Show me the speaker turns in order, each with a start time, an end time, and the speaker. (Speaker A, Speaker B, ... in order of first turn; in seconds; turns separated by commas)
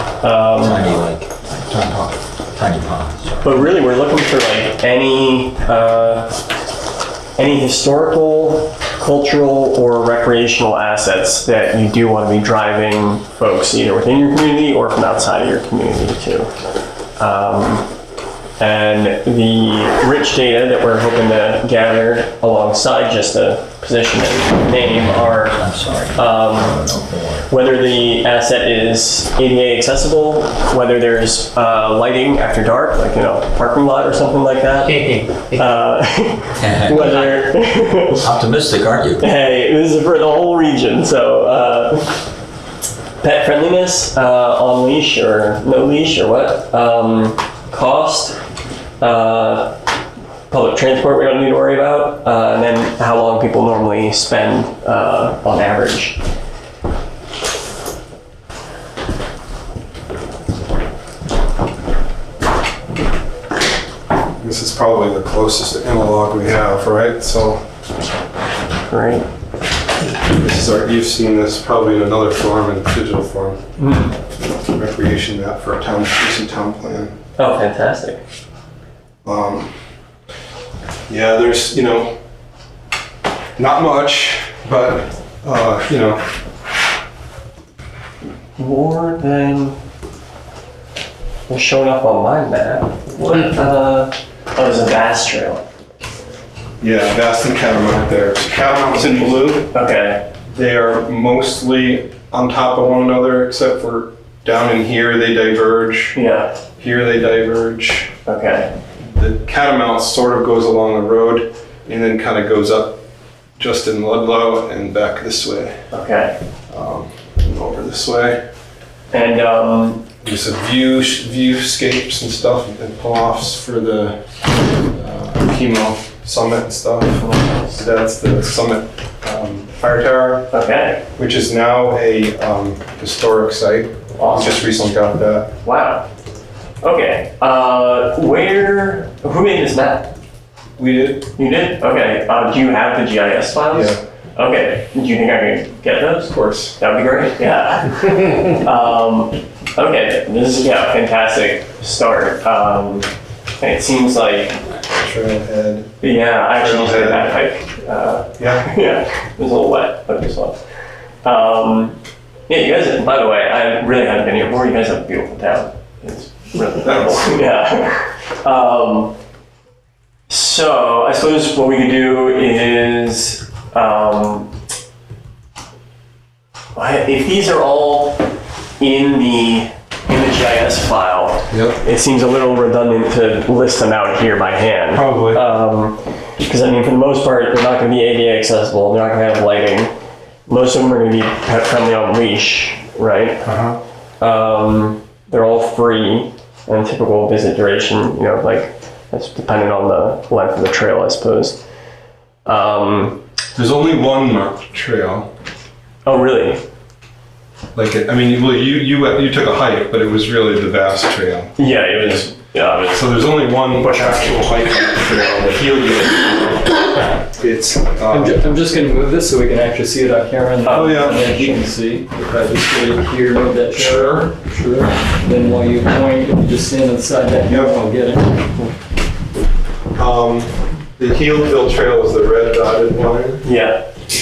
Speaker A: 0.2-0.9, Speaker B: 0.6-3.7, Speaker A: 3.4-6.3, Speaker A: 7.4-16.5, Speaker A: 17.2-17.9, Speaker A: 18.6-25.6, Speaker B: 24.9-27.5, Speaker A: 26.1-26.8, Speaker A: 27.5-38.2, Speaker B: 36.6-37.4, Speaker B: 38.2-39.3, Speaker A: 39.2-42.2, Speaker A: 43.2-48.4, Speaker A: 49.0-49.8, Speaker A: 50.5-56.2, Speaker C: 64.4-67.6, Speaker A: 68.9-69.2, Speaker C: 70.2-73.6, Speaker A: 73.8-74.1, Speaker C: 74.7-77.2, Speaker A: 77.4-78.2, Speaker C: 79.2-79.7, Speaker C: 81.1-82.1, Speaker C: 83.6-86.2, Speaker A: 88.6-89.8, Speaker A: 91.5-95.6, Speaker C: 96.8-99.7, Speaker A: 98.9-100.2, Speaker C: 100.5-106.2, Speaker A: 106.1-106.5, Speaker C: 106.8-108.1, Speaker A: 108.2-108.7, Speaker C: 109.0-113.0, Speaker C: 113.6-115.8, Speaker A: 115.9-116.3, Speaker C: 116.7-118.4, Speaker A: 119.1-120.0, Speaker C: 120.2-124.2, Speaker C: 124.9-130.5, Speaker A: 127.2-127.7, Speaker A: 130.5-131.0, Speaker C: 131.2-135.5, Speaker A: 134.2-134.6, Speaker A: 135.6-136.1, Speaker A: 136.8-140.1, Speaker C: 140.8-141.2, Speaker A: 141.4-153.1, Speaker C: 143.7-144.0, Speaker A: 153.6-154.6, Speaker C: 154.9-155.9, Speaker A: 156.0-160.6, Speaker C: 156.6-157.3, Speaker C: 158.4-158.7, Speaker A: 161.2-169.1, Speaker C: 166.8-167.3, Speaker A: 170.3-174.5, Speaker A: 176.8-178.2, Speaker A: 178.8-189.9, Speaker C: 181.5-181.8, Speaker C: 184.9-185.4, Speaker A: 190.5-193.4, Speaker C: 193.4-193.8, Speaker A: 194.2-201.6, Speaker A: 202.4-203.2, Speaker C: 203.6-205.3, Speaker A: 206.1-206.6, Speaker C: 207.8-211.6, Speaker A: 211.6-214.5, Speaker C: 212.9-218.4, Speaker D: 218.1-228.4, Speaker A: 220.6-221.2, Speaker C: 220.7-221.6, Speaker C: 223.7-224.3, Speaker C: 227.5-227.8, Speaker C: 230.0-233.4, Speaker A: 233.4-233.8